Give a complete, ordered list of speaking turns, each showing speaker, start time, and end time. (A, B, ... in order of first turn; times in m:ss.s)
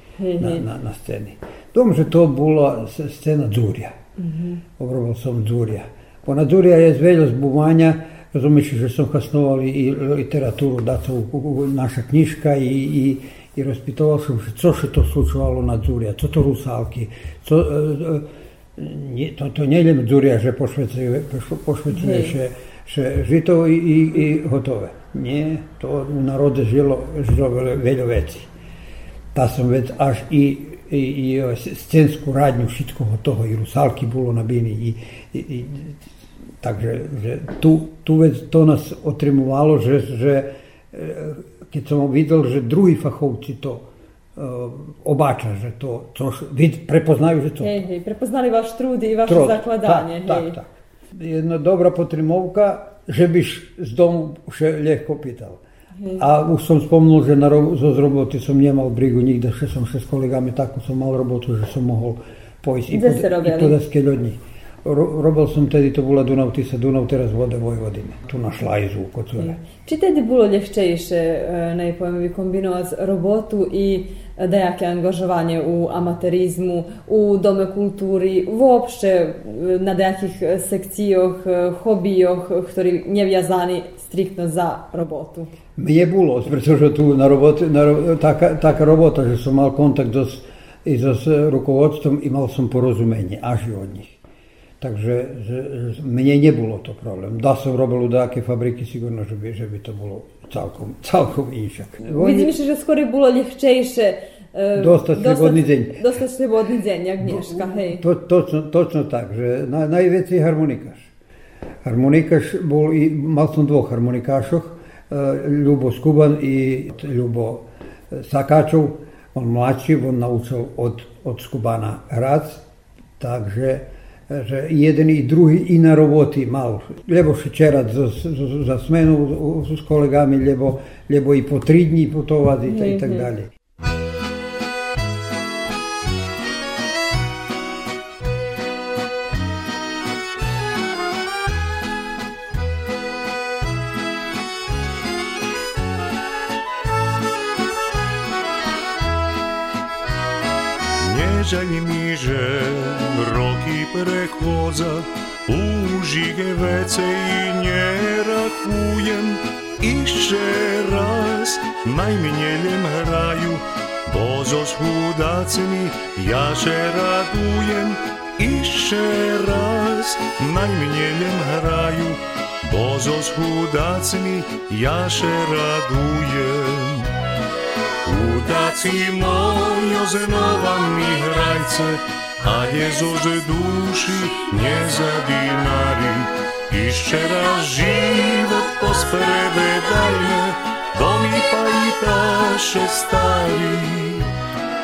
0:00.2-0:00.7 A
0:00.4-0:04.0 B
0:04.2-0:04.6 A
0:04.8-0:28.5 B
0:21.9-0:22.3 A
0:29.3-0:36.0 B
0:36.6-0:47.8 B
0:47.6-0:50.6 A
0:49.3-0:55.6 B
0:56.2-1:09.6 B
1:02.9-1:03.8 A
1:09.4-1:25.5 A
1:25.8-1:34.2 B
1:34.8-1:42.5 B
1:42.2-1:48.0 A
1:44.8-1:46.0 B
1:47.2-1:51.1 B
1:51.8-2:02.6 B
2:03.2-2:13.5 B
2:12.7-2:13.3 A
2:31.0-2:57.1 C
2:58.0-3:14.3 C